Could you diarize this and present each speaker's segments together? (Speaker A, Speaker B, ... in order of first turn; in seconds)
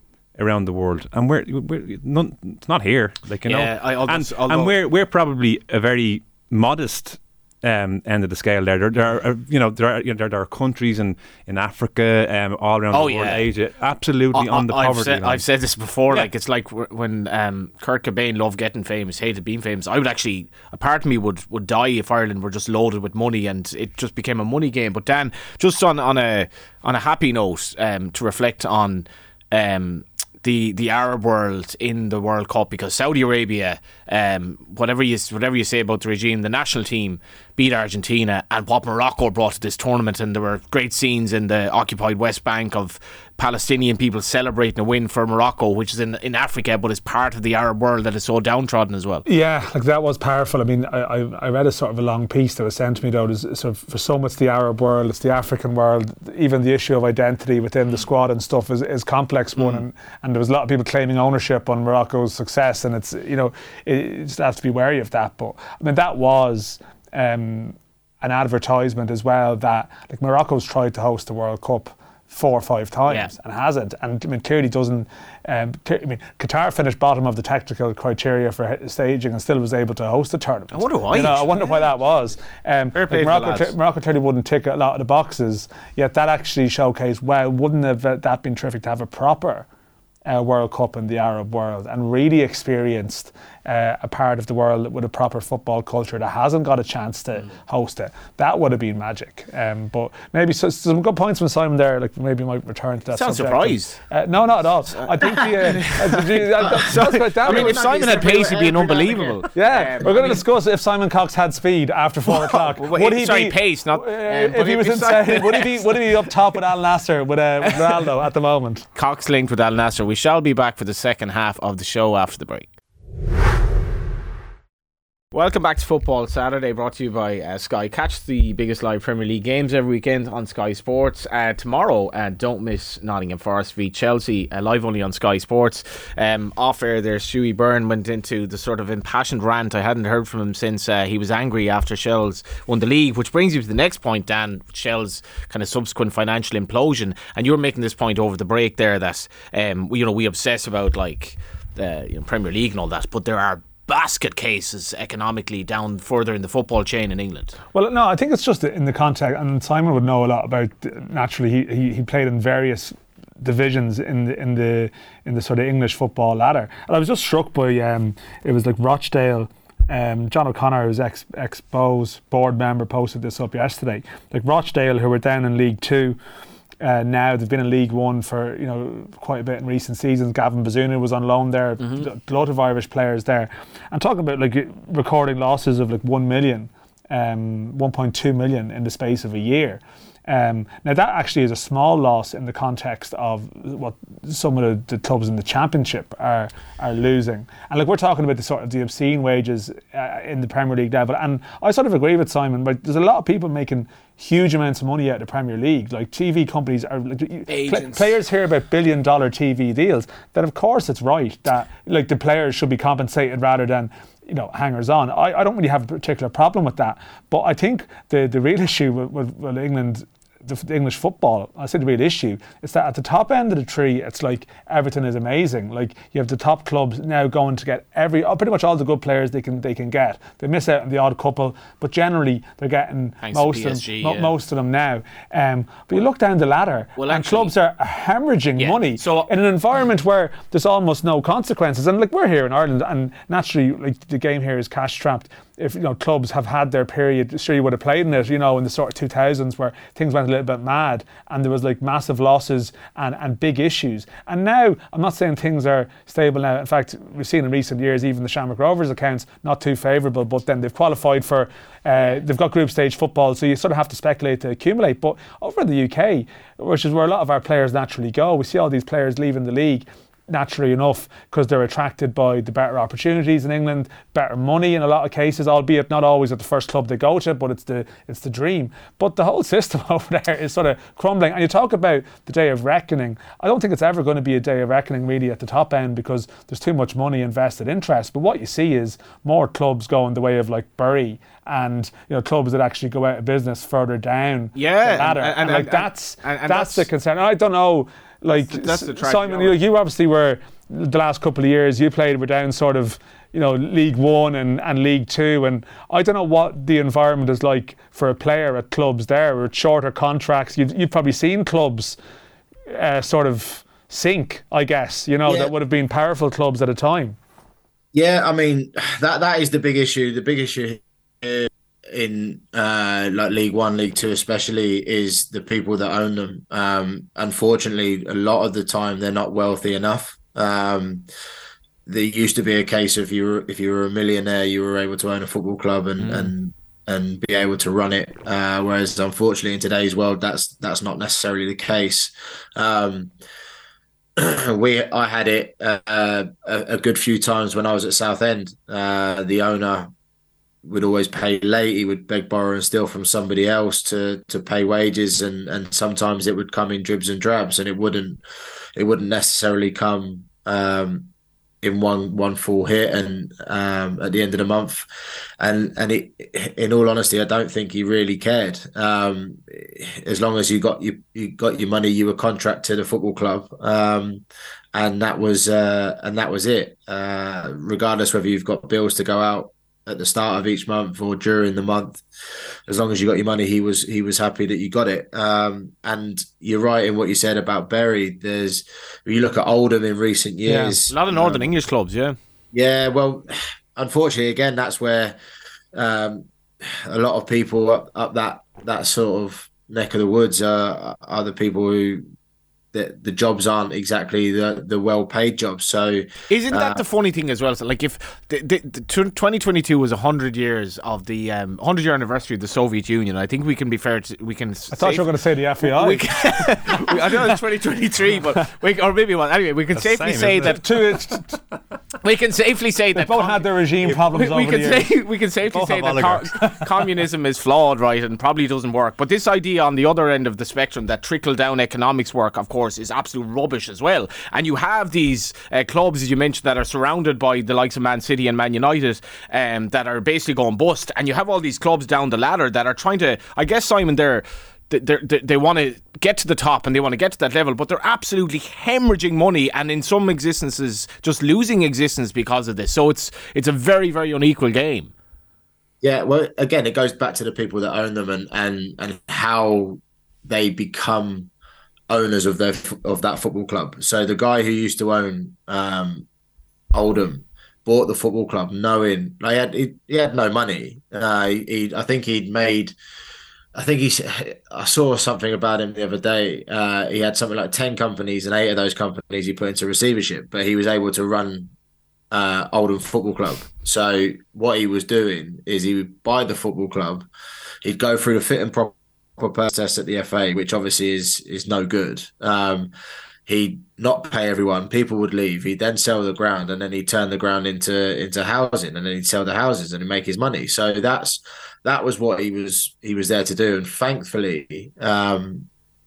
Speaker A: 0.4-15.4, 419.7-420.8, 425.5-426.9
Speaker B: 3.5-4.8, 12.9-13.4, 14.3-49.2, 59.6-59.8, 80.7-81.5, 82.9-83.7, 103.1-104.0, 105.0-110.4, 112.3-116.1, 117.7-118.0, 119.0-122.7, 125.3-157.6, 181.8-182.1, 207.5-208.1, 233.2-234.3, 237.0-237.5, 238.6-239.3, 294.6-296.9, 298.3-299.6, 336.0-336.3, 390.9-392.2, 406.3-415.1, 415.6-420.6, 422.0-454.9
Speaker C: 49.3-89.7, 90.3-107.8, 109.5-118.8, 157.7-176.2, 176.8-312.0, 312.7-317.2, 390.4-390.8, 414.7-416.0, 420.4-421.4, 422.9-424.9
Speaker D: 107.5-109.4, 315.2-315.5, 317.9-331.1, 331.9-343.1, 344.2-349.9, 350.6-358.2, 358.8-361.1, 361.6-364.9, 365.4-374.2, 374.8-382.0, 382.7-391.5, 392.5-393.2, 393.8-395.2, 395.7-402.1, 402.7-406.8, 455.8-461.3, 461.9-466.1, 466.7-472.8, 473.6-481.5, 482.1-487.1, 487.6-492.7, 493.3-505.5